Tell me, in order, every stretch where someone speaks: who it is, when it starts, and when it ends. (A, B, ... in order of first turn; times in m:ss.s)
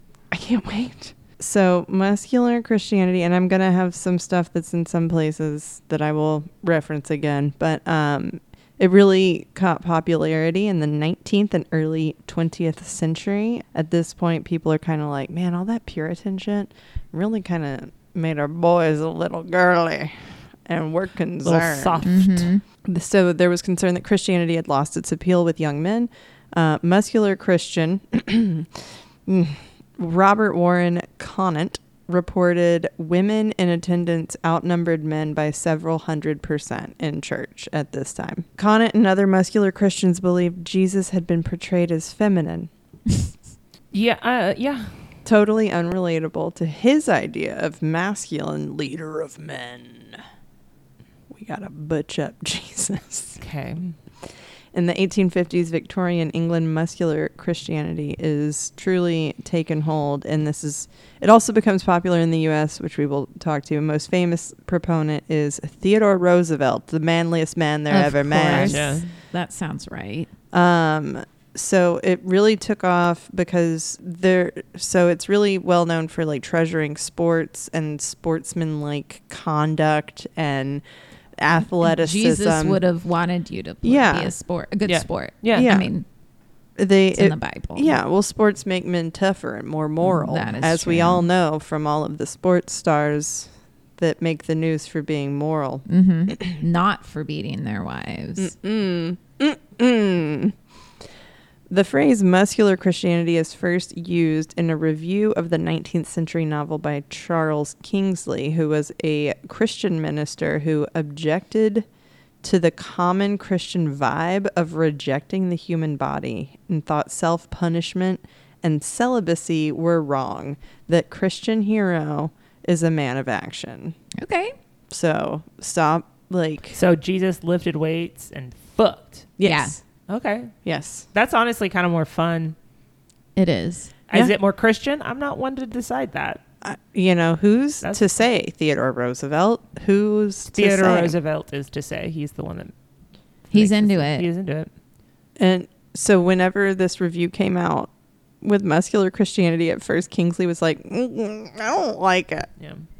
0:00.3-0:22.1 A
0:21.4-0:22.5 B
0:22.0-0:22.6 C
0:22.8-0:42.7 A
0:43.9-0:45.2 B
0:45.2-0:50.2 A
0:51.3-0:53.4 A
0:53.4-0:54.0 B
0:54.7-1:09.0 A
1:07.9-1:10.3 C
1:08.5-1:09.1 B
1:10.5-1:20.8 A
1:21.4-1:22.8 A
1:21.8-1:26.0 C
1:23.8-1:24.3 A
1:24.9-1:25.7 B
1:25.5-1:25.9 A
1:26.8-1:36.4 A
1:27.1-1:28.0 C
1:30.0-1:31.3 C
1:35.9-1:38.5 C
1:38.4-1:40.6 A
1:41.7-1:51.9 A
1:52.4-2:04.0 A
2:04.2-2:04.6 C
2:04.9-2:06.8 A
2:06.7-2:09.4 B
2:09.4-2:09.8 A
2:09.4-2:09.8 C
2:10.1-2:10.6 B
2:10.6-2:11.1 A
2:11.1-2:12.6 B
2:13.4-2:13.9 C
2:14.1-2:16.4 B
2:16.6-2:21.2 A
2:20.5-2:22.7 B
2:23.5-2:24.3 C
2:23.5-2:24.7 B
2:25.4-2:27.9 A
2:28.4-2:32.5 A